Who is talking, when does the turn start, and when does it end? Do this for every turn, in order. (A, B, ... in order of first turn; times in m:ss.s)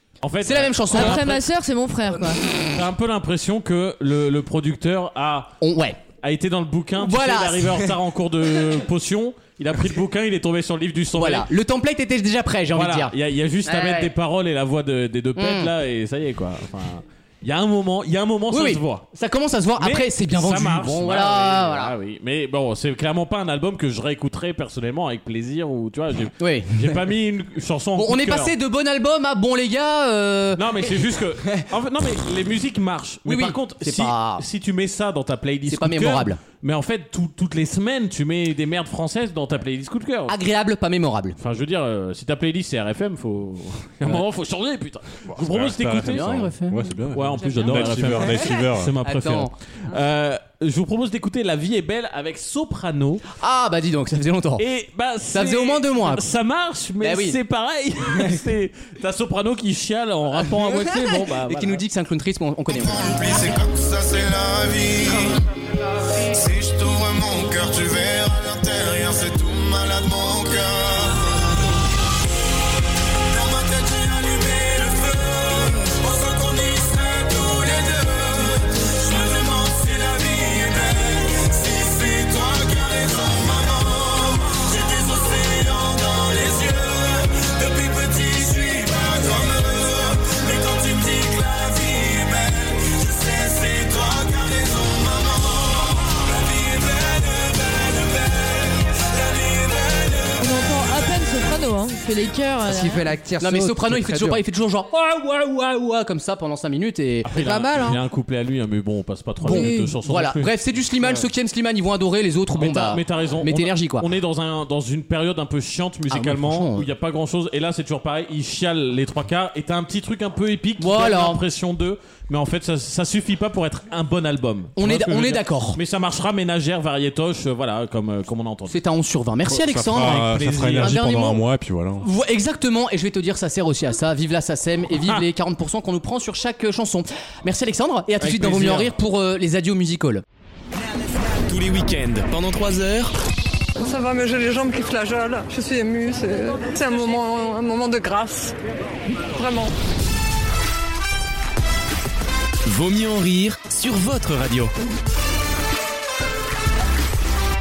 0:00.2-0:01.4 A
0:00.4-0:01.2 B
0:00.9-0:02.4 C
0:02.7-0:05.6 A
0:05.6-0:06.0 B
0:06.2-0:11.5 A
0:07.0-0:07.9 B
0:11.2-0:13.1 B
0:12.7-0:19.0 A
0:13.6-0:14.1 B
0:15.4-0:15.7 B
0:18.5-0:21.9 B
0:19.8-0:28.5 A
0:26.4-0:27.0 B
0:28.0-0:30.8 B
0:30.6-0:40.3 A
0:33.2-0:34.4 B
0:35.7-0:36.4 B
0:40.3-0:41.4 B
0:41.4-0:46.3 A
0:45.3-0:49.0 D
0:46.0-0:46.9 B
0:47.1-0:53.2 A
0:49.0-0:49.5 B
0:53.4-0:54.6 B
0:54.6-1:01.8 A
0:55.3-0:56.2 B
0:57.0-0:57.4 B
1:00.4-1:03.4 B
1:02.7-1:05.5 E
1:06.1-1:11.8 E
1:13.1-1:40.4 E
1:40.4-1:43.1 C
1:42.6-1:44.4 F
1:43.4-1:47.3 B
1:47.2-1:50.5 A
1:47.3-1:48.0 F
1:49.4-1:54.1 B
1:49.4-1:49.9 C
1:52.6-2:08.7 A
1:56.1-1:56.8 B
2:00.8-2:01.4 B
2:04.8-2:05.8 B
2:08.7-2:11.4 B
2:09.5-2:12.1 D
2:10.0-2:11.0 A
2:12.0-2:20.2 B
2:18.2-2:18.9 A
2:21.3-2:23.1 G
2:23.8-2:28.5 H
2:29.2-2:29.7 H
2:32.6-2:34.7 G